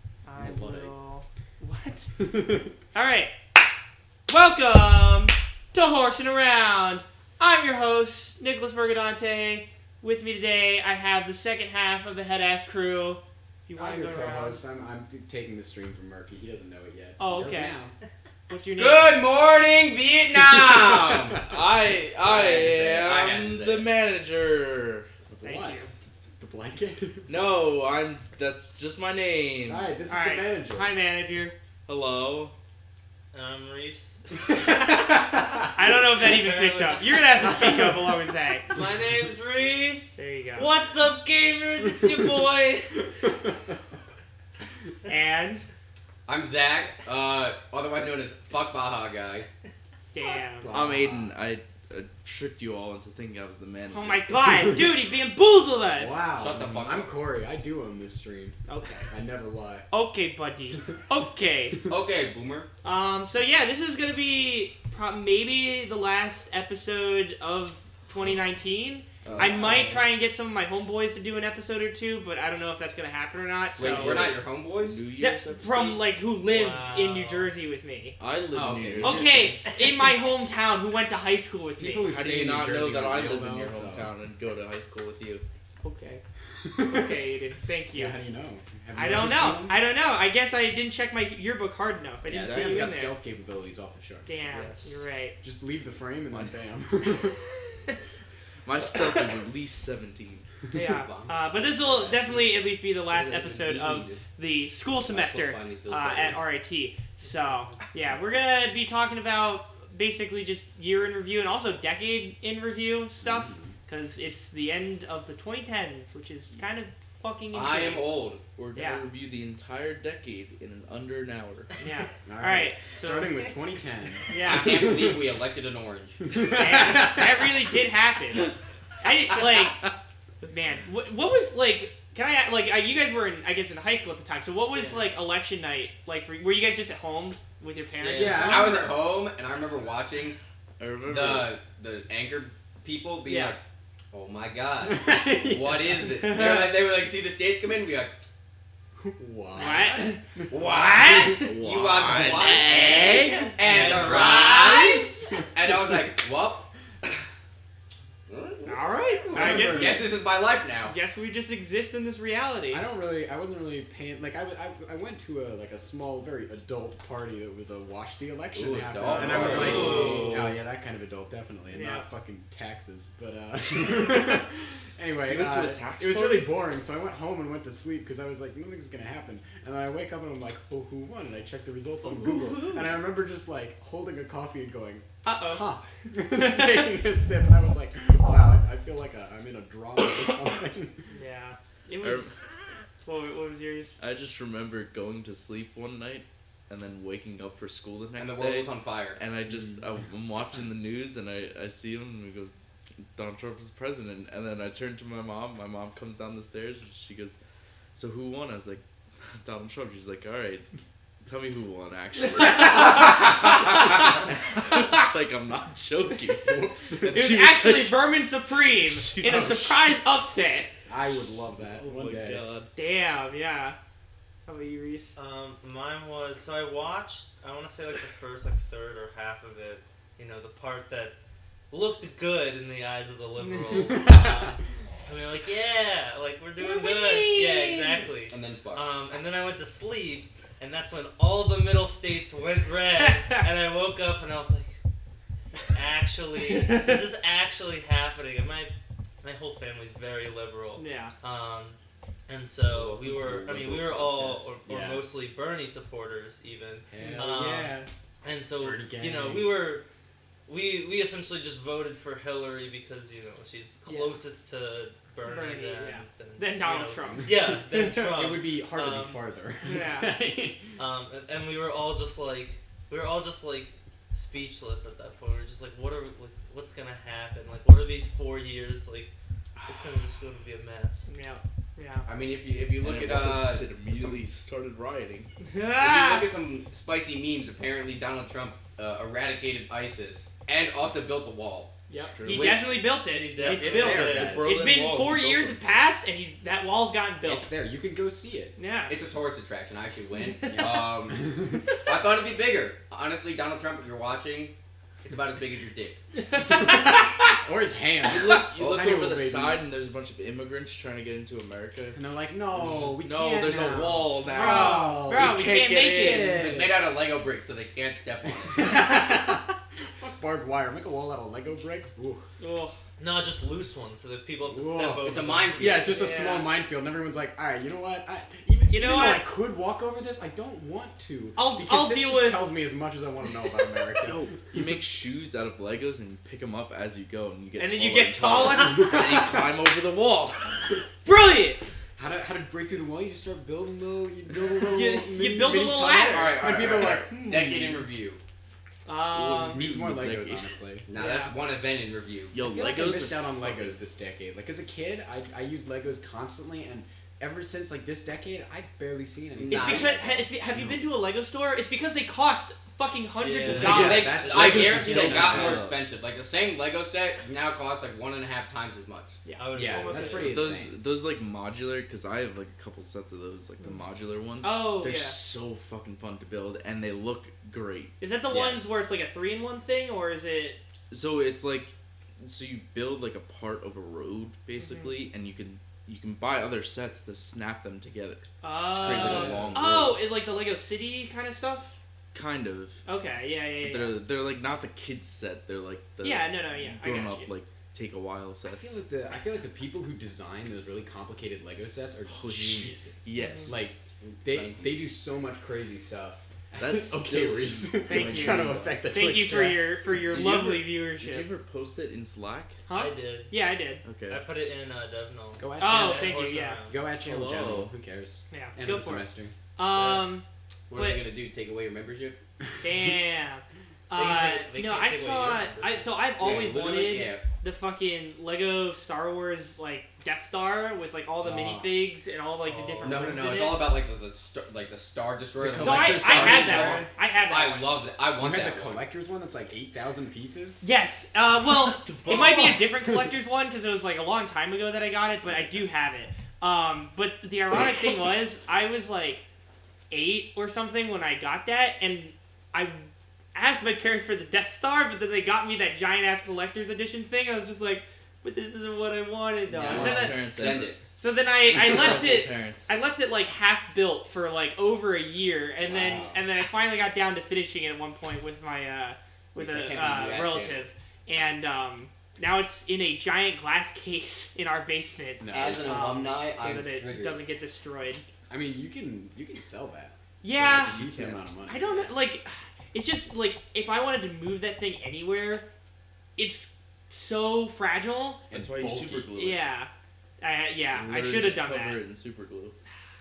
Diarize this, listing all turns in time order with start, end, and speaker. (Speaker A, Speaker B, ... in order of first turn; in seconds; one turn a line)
Speaker A: 0.2-2.1
Speaker B: 0.3-0.9
Speaker B: 2.2-2.7
Speaker A: 2.9-3.3
Speaker A: 4.3-14.6
Speaker B: 13.7-17.9
Speaker A: 17.2-17.7
Speaker A: 18.5-19.2
Speaker C: 18.8-21.5
Speaker B: 20.4-21.3
Speaker D: 21.4-25.1
Speaker C: 22.2-23.9
Speaker B: 25.3-25.8
Speaker A: 25.4-25.9
Speaker B: 26.4-27.3
Speaker D: 27.3-29.9
Speaker B: 29.6-30.9
Speaker A: 30.1-31.5
Speaker D: 31.9-32.5
Speaker E: 33.3-34.2
Speaker B: 34.3-35.9
Speaker A: 35.7-38.7
Speaker E: 36.2-37.0
Speaker B: 37.4-38.1
Speaker E: 38.7-43.1
Speaker A: 40.2-40.7
Speaker B: 43.2-43.5
Speaker A: 45.1-45.6
Speaker C: 46.2-49.5
Speaker A: 50.1-50.7
Speaker B: 50.4-51.3
Speaker D: 50.7-54.3
Speaker A: 53.9-56.2
Speaker B: 55.9-59.9
Speaker C: 56.3-57.1
Speaker A: 58.7-59.1
Speaker A: 59.9-61.8
Speaker C: 61.9-62.7
Speaker A: 62.8-74.2
Speaker D: 69.2-70.0
Speaker B: 69.2-70.0
Speaker C: 73.8-75.0
Speaker D: 73.8-76.1
Speaker A: 75.2-78.2
Speaker E: 76.4-77.5
Speaker D: 78.2-79.5
Speaker B: 78.5-79.6
Speaker C: 78.7-79.2
Speaker A: 79.0-82.1
Speaker B: 81.8-84.1
Speaker D: 82.1-85.4
Speaker A: 85.8-86.2
Speaker B: 86.6-87.2
Speaker A: 86.8-88.2
Speaker B: 87.9-89.8
Speaker A: 88.9-93.1
Speaker B: 92.3-94.5
Speaker D: 92.3-93.0
Speaker A: 94.3-95.3
Speaker D: 94.4-95.1
Speaker B: 95.4-97.4
Speaker D: 96.3-96.6
Speaker D: 98.6-100.5
Speaker C: 100.7-104.2
Speaker A: 100.7-118.1
Speaker C: 105.1-106.4
Speaker E: 107.4-107.7
Speaker B: 113.2-113.8
Speaker C: 117.5-118.4
Speaker D: 118.5-121.7
Speaker A: 118.7-119.0
Speaker A: 121.8-123.4
Speaker B: 122.2-125.2
Speaker A: 124.3-124.7
Speaker C: 124.4-126.2
Speaker B: 126.3-127.4
Speaker A: 126.4-129.8
Speaker D: 129.3-129.9
Speaker A: 130.5-138.7
Speaker E: 138.0-138.5
Speaker B: 138.1-139.0
Speaker C: 138.1-140.4
Speaker D: 140.8-141.5
Speaker C: 141.0-143.6
Speaker A: 143.2-143.6
Speaker C: 144.1-148.1
Speaker B: 144.8-146.6
Speaker A: 146.2-146.7
Speaker B: 149.0-151.5
Speaker A: 149.6-150.2
Speaker C: 150.5-156.7
Speaker A: 150.8-151.1
Speaker D: 151.4-154.0
Speaker E: 152.8-154.6
Speaker B: 153.7-154.5
Speaker A: 154.1-155.2
Speaker B: 155.1-155.4
Speaker C: 158.3-160.9
Speaker A: 158.6-160.0
Speaker B: 159.3-160.1
Speaker A: 160.8-162.8
Speaker B: 162.7-191.0
Speaker C: 168.5-170.2
Speaker D: 169.2-170.6
Speaker E: 169.6-170.2
Speaker A: 171.7-172.1
Speaker D: 175.2-176.6
Speaker A: 182.2-182.8
Speaker A: 185.2-185.7
Speaker A: 186.2-186.9
Speaker A: 191.1-192.4
Speaker D: 192.0-192.4
Speaker A: 193.0-194.0
Speaker D: 194.0-202.5
Speaker C: 198.2-199.2
Speaker B: 199.5-199.8
Speaker D: 203.1-207.4
Speaker D: 207.9-208.8
Speaker D: 209.4-210.6
Speaker D: 211.2-218.1
Speaker A: 212.3-214.1
Speaker B: 212.5-213.0
Speaker B: 216.4-217.4
Speaker A: 217.1-220.7
Speaker D: 218.8-219.7
Speaker B: 219.2-219.6
Speaker B: 220.9-222.4
Speaker D: 221.7-222.7
Speaker A: 222.7-223.8
Speaker A: 224.5-225.1
Speaker E: 225.1-231.1
Speaker E: 231.7-244.8
Speaker A: 233.4-233.9
Speaker B: 233.9-234.4
Speaker A: 236.6-238.0
Speaker C: 238.3-238.8
Speaker A: 243.0-243.4
Speaker E: 245.4-259.8
Speaker A: 246.4-247.0
Speaker A: 250.8-251.1
Speaker D: 252.7-254.6
Speaker B: 254.7-255.0
Speaker B: 256.9-257.9
Speaker A: 257.0-257.3
Speaker B: 258.6-259.6
Speaker E: 260.5-269.2
Speaker A: 263.8-264.2
Speaker A: 265.2-268.2
Speaker B: 267.1-270.6
Speaker A: 269.6-270.1
Speaker E: 270.8-279.1
Speaker D: 279.6-280.0
Speaker E: 279.7-281.1
Speaker A: 281.1-282.1
Speaker C: 282.1-284.3
Speaker D: 282.7-285.3
Speaker A: 285.4-286.3
Speaker C: 285.8-291.7
Speaker A: 291.9-297.5
Speaker D: 292.0-292.6
Speaker C: 292.2-292.7
Speaker E: 293.0-294.5
Speaker B: 293.4-294.6
Speaker D: 293.7-295.6
Speaker B: 297.2-298.6
Speaker A: 298.6-298.9
Speaker C: 298.9-306.0
Speaker A: 300.2-300.9
Speaker B: 300.5-301.6
Speaker A: 306.2-307.4
Speaker B: 306.4-309.6
Speaker D: 308.1-312.0
Speaker C: 308.6-308.9
Speaker B: 311.9-316.9
Speaker D: 312.5-316.4
Speaker A: 314.2-316.5
Speaker C: 316.3-318.8
Speaker B: 318.5-322.2
Speaker A: 322.4-322.7
Speaker E: 323.0-325.9
Speaker B: 324.4-334.7
Speaker C: 325.0-326.1
Speaker A: 325.9-326.6
Speaker A: 328.7-329.3
Speaker A: 331.4-332.5
Speaker D: 334.0-340.8
Speaker A: 337.6-339.4
Speaker A: 341.0-341.6
Speaker B: 341.9-347.9
Speaker A: 344.7-346.4
Speaker C: 346.1-348.2
Speaker A: 348.9-349.6
Speaker D: 349.1-350.6
Speaker B: 349.6-350.9
Speaker C: 350.9-352.4
Speaker A: 350.9-351.3
Speaker D: 352.3-353.8
Speaker B: 352.4-360.3
Speaker C: 359.3-360.2
Speaker A: 359.5-364.4
Speaker E: 363.2-363.9
Speaker D: 363.5-365.8
Speaker B: 363.5-365.6
Speaker C: 363.8-369.2
Speaker A: 369.2-370.4
Speaker E: 369.4-370.4
Speaker B: 369.5-370.7
Speaker D: 370.2-377.9
Speaker A: 374.4-375.2
Speaker A: 378.0-380.6
Speaker C: 378.3-378.6
Speaker D: 380.9-390.0
Speaker A: 384.6-385.0
Speaker A: 388.4-391.7
Speaker C: 388.8-389.6
Speaker B: 389.0-389.4
Speaker D: 392.1-392.8
Speaker A: 392.9-394.0
Speaker D: 393.6-398.8
Speaker A: 396.0-397.3
Speaker B: 398.4-409.7
Speaker D: 402.1-403.6
Speaker A: 403.2-403.5
Speaker C: 404.0-404.7
Speaker D: 406.6-408.9
Speaker A: 407.9-411.3
Speaker D: 409.9-412.6
Speaker A: 412.7-413.8
Speaker E: 412.7-413.3
Speaker D: 413.8-414.2
Speaker E: 414.1-416.8
Speaker B: 415.4-416.1
Speaker A: 415.6-416.6
Speaker B: 416.7-419.3
Speaker D: 417.0-417.7
Speaker A: 418.3-421.0
Speaker E: 419.7-420.1
Speaker C: 420.7-422.2
Speaker A: 422.6-433.7
Speaker E: 423.9-425.9
Speaker C: 426.2-427.2
Speaker B: 431.2-431.8
Speaker E: 432.4-433.2
Speaker C: 432.8-438.8
Speaker B: 435.4-436.9
Speaker A: 435.6-437.7
Speaker B: 438.2-440.6
Speaker A: 440.6-449.2
Speaker D: 441.5-442.6
Speaker B: 442.1-443.1
Speaker A: 449.9-460.2
Speaker D: 459.5-460.7
Speaker B: 459.7-460.1
Speaker C: 459.7-460.8
Speaker A: 461.0-478.0
Speaker D: 461.4-462.8
Speaker B: 465.6-466.2
Speaker C: 469.4-470.7
Speaker B: 475.2-476.0
Speaker C: 475.3-477.2
Speaker B: 478.3-481.9
Speaker A: 480.2-480.8
Speaker D: 480.6-481.2
Speaker A: 481.5-485.4
Speaker A: 486.1-488.2
Speaker B: 488.3-489.1
Speaker D: 488.3-489.5
Speaker A: 489.1-491.8
Speaker D: 490.7-492.6